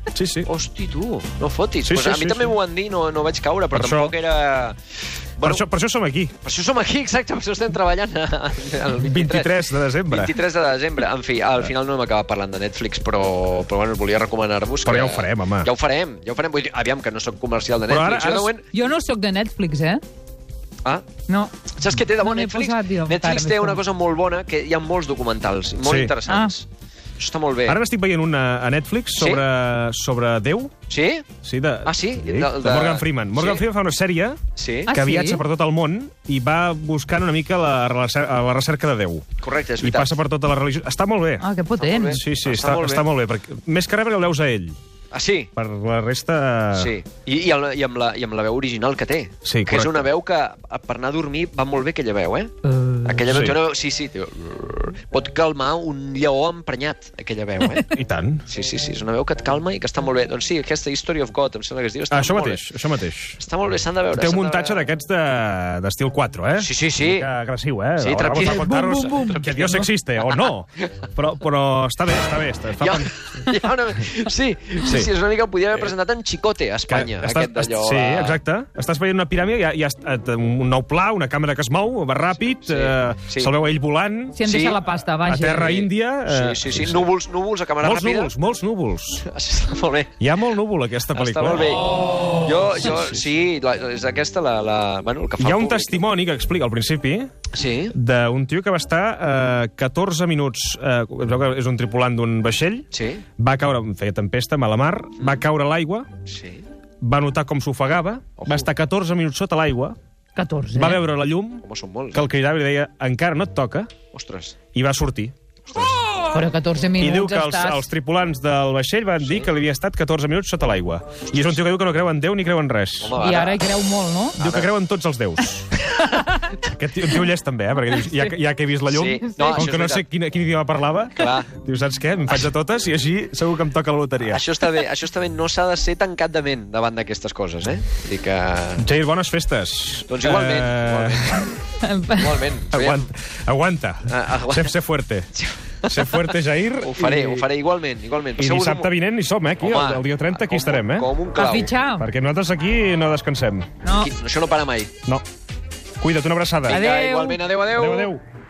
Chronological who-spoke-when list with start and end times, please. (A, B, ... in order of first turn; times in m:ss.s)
0:00.1-0:00.5 A
0:00.4-0:04.8 B
0:01.8-0:02.6 A
0:03.7-0:04.1 A
0:05.4-0:05.6 B
0:05.4-0:06.3 A
0:06.4-0:09.5 B
0:09.0-0:10.3 A
0:10.1-0:18.7 B
0:14.8-0:15.7 A
0:17.9-0:18.5 A
0:18.7-0:20.0 C
0:21.3-0:23.8 C
0:21.7-0:26.7 B
0:25.8-0:26.2 A
0:26.3-0:26.5 C
0:27.2-0:27.8 B
0:27.6-0:30.7 A
0:29.1-0:29.4 B
0:30.9-0:31.2 B
0:31.4-0:34.4 A
0:31.8-0:33.6 B
0:34.6-0:34.9 B
0:34.9-0:35.4 C
0:34.9-0:39.2 A
0:39.4-0:40.1 B
0:39.8-0:41.5 A
0:41.4-0:42.2 C
0:41.8-0:43.0 B
0:42.1-0:44.8 A
0:45.1-0:45.5 B
0:45.5-0:46.9 A
0:46.7-0:52.5 B
0:49.4-0:50.1 A
0:52.7-0:53.1 C
0:53.0-0:57.9 B
0:53.2-0:53.6 A
0:57.8-0:58.4 A
0:58.4-1:02.7 B
1:02.1-1:03.4 A
1:03.4-1:04.9 B
1:04.1-1:13.5 A
1:06.6-1:07.3 B
1:08.0-1:10.5 B
1:08.4-1:08.6 C
1:12.8-1:18.4 B
1:14.8-1:15.1 A
1:16.9-1:27.1 A
1:22.6-1:23.5 B
1:24.3-1:25.8 C
1:24.4-1:24.8 B
1:25.7-1:28.3 B
1:27.8-1:29.2 A
1:29.2-1:30.1 B
1:30.2-1:31.8 A
1:31.1-1:36.0 B
1:32.8-1:33.2 A
1:35.4-1:37.3 A
1:37.5-1:37.9 B
1:37.9-1:42.9 A
1:42.9-1:43.2 B
1:43.4-1:46.1 A
1:46.2-1:46.6 B
1:47.0-1:50.0 A
1:50.4-1:51.0 C
1:50.7-1:51.6 A
1:51.6-1:52.3 B
1:52.1-1:53.9 A
1:54.1-1:54.6 B
1:54.7-1:55.3 A
1:55.6-1:56.0 B
1:56.3-1:57.8 C
1:57.0-2:03.2 A
2:01.3-2:01.6 B
2:03.0-2:03.6 B
2:03.2-2:04.4 C
2:04.4-2:04.7 B
2:04.4-2:05.7 A
2:06.0-2:06.3 C
2:06.6-2:14.5 A
2:08.9-2:10.0 B
2:09.4-2:09.6 C
2:11.2-2:11.5 B
2:14.2-2:18.9 B
2:18.8-2:21.5 A
2:20.1-2:21.5 B
2:21.8-2:22.4 C
2:22.1-2:23.1 B
2:22.7-2:25.3 A
2:24.1-2:24.8 B
2:25.3-2:28.9 B
2:25.8-2:27.5 A
2:28.4-2:31.1 A
2:29.6-2:31.7 B
2:31.4-2:32.0 C
2:32.0-2:33.7 A
2:33.8-2:34.1 C
2:33.9-2:34.9 B
2:36.0-2:36.8 A
2:36.7-2:38.1 B
2:36.7-2:37.5 C
2:37.7-2:38.2 A